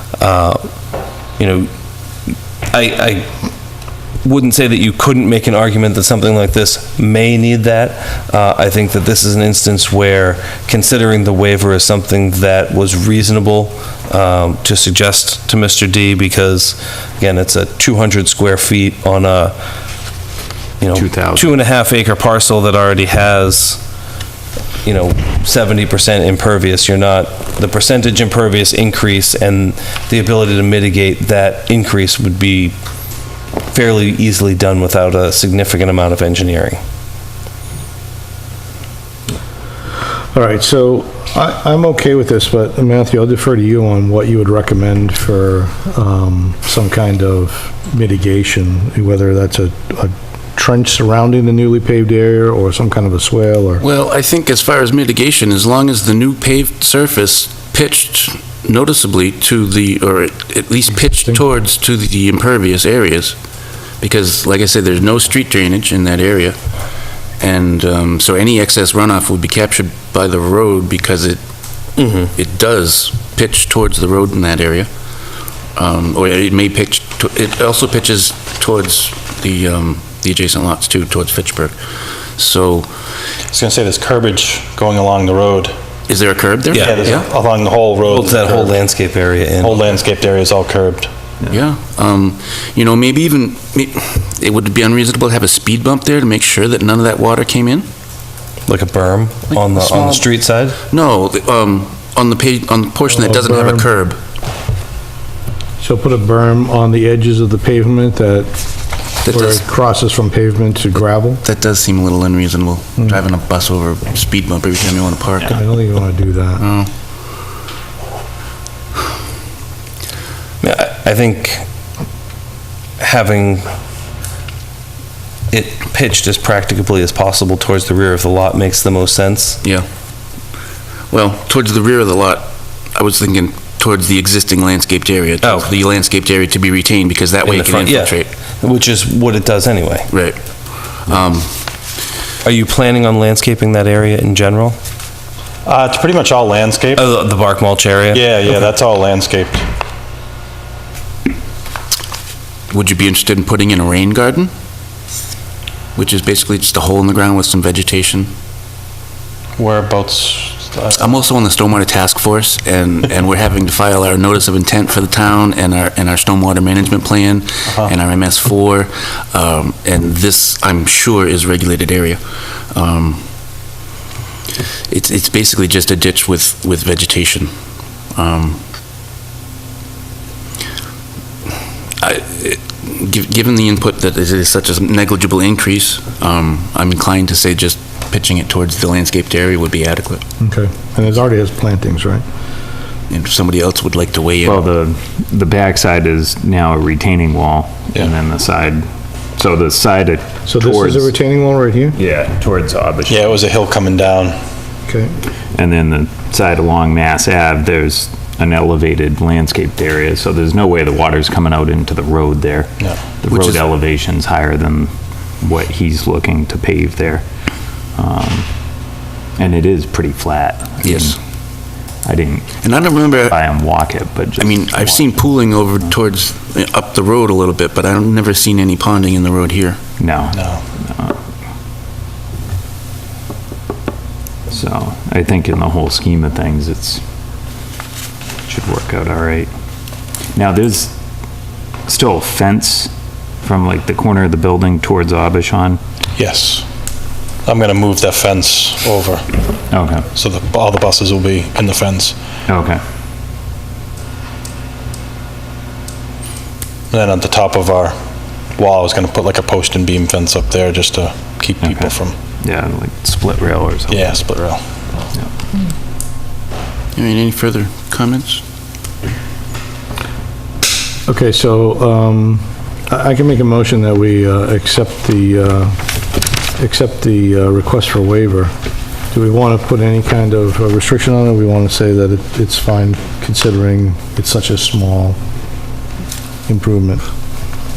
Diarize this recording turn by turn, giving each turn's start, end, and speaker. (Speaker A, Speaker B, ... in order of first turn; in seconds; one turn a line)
Speaker A: 0.2-0.6
Speaker A: 1.4-1.7
Speaker A: 2.7-3.3
Speaker A: 4.2-19.6
Speaker A: 20.8-23.8
Speaker B: 20.9-21.5
Speaker A: 24.8-32.8
Speaker A: 33.7-36.8
Speaker C: 40.3-53.8
Speaker D: 53.8-63.4
Speaker D: 64.0-66.6
Speaker D: 67.4-71.4
Speaker A: 72.0-72.3
Speaker D: 72.3-74.9
Speaker D: 75.8-81.8
Speaker D: 82.4-82.9
Speaker E: 83.5-85.8
Speaker D: 86.1-87.3
Speaker E: 86.8-88.8
Speaker A: 88.1-89.9
Speaker E: 89.6-91.1
Speaker D: 91.5-97.9
Speaker A: 98.7-100.8
Speaker D: 99.5-100.3
Speaker D: 100.9-104.2
Speaker C: 103.2-103.9
Speaker C: 105.8-108.5
Speaker D: 109.2-109.6
Speaker C: 109.3-111.4
Speaker D: 111.4-115.6
Speaker C: 115.5-116.6
Speaker D: 116.6-116.9
Speaker A: 120.6-121.7
Speaker A: 123.0-123.7
Speaker A: 125.5-129.6
Speaker D: 131.1-138.3
Speaker A: 135.4-135.7
Speaker A: 137.4-140.1
Speaker D: 140.1-140.4
Speaker D: 141.0-141.6
Speaker A: 142.4-144.8
Speaker E: 145.7-147.0
Speaker A: 147.0-148.2
Speaker E: 148.1-149.7
Speaker D: 152.7-154.5
Speaker D: 156.0-158.3
Speaker E: 159.6-161.0
Speaker D: 160.9-172.2
Speaker D: 172.7-173.3
Speaker D: 174.9-177.5
Speaker D: 178.2-178.6
Speaker D: 182.0-190.2
Speaker C: 190.4-192.2
Speaker D: 193.1-194.7
Speaker B: 194.4-198.8
Speaker B: 199.4-201.1
Speaker C: 200.5-202.0
Speaker B: 201.9-203.3
Speaker E: 203.1-204.4
Speaker C: 204.9-205.1
Speaker B: 205.5-212.7
Speaker B: 213.2-214.9
Speaker D: 213.3-213.6
Speaker B: 215.4-217.2
Speaker B: 218.0-218.5
Speaker B: 219.4-221.2
Speaker D: 220.8-221.2
Speaker B: 222.1-222.5
Speaker D: 222.6-223.4
Speaker B: 223.3-225.1
Speaker D: 224.4-229.8
Speaker B: 230.0-231.2
Speaker E: 230.4-230.6
Speaker B: 234.5-237.0
Speaker B: 238.5-239.5
Speaker B: 240.3-240.9
Speaker B: 241.9-242.9
Speaker B: 243.4-245.8
Speaker E: 246.2-246.7
Speaker E: 247.5-249.2
Speaker B: 249.7-250.1
Speaker E: 250.1-252.2
Speaker B: 252.5-252.8
Speaker E: 256.9-258.0
Speaker E: 258.6-262.1
Speaker B: 261.6-261.9
Speaker B: 262.4-264.2
Speaker E: 263.9-264.6
Speaker D: 266.9-268.4
Speaker C: 271.1-275.8
Speaker C: 276.6-278.5
Speaker C: 279.1-285.2
Speaker C: 286.5-287.0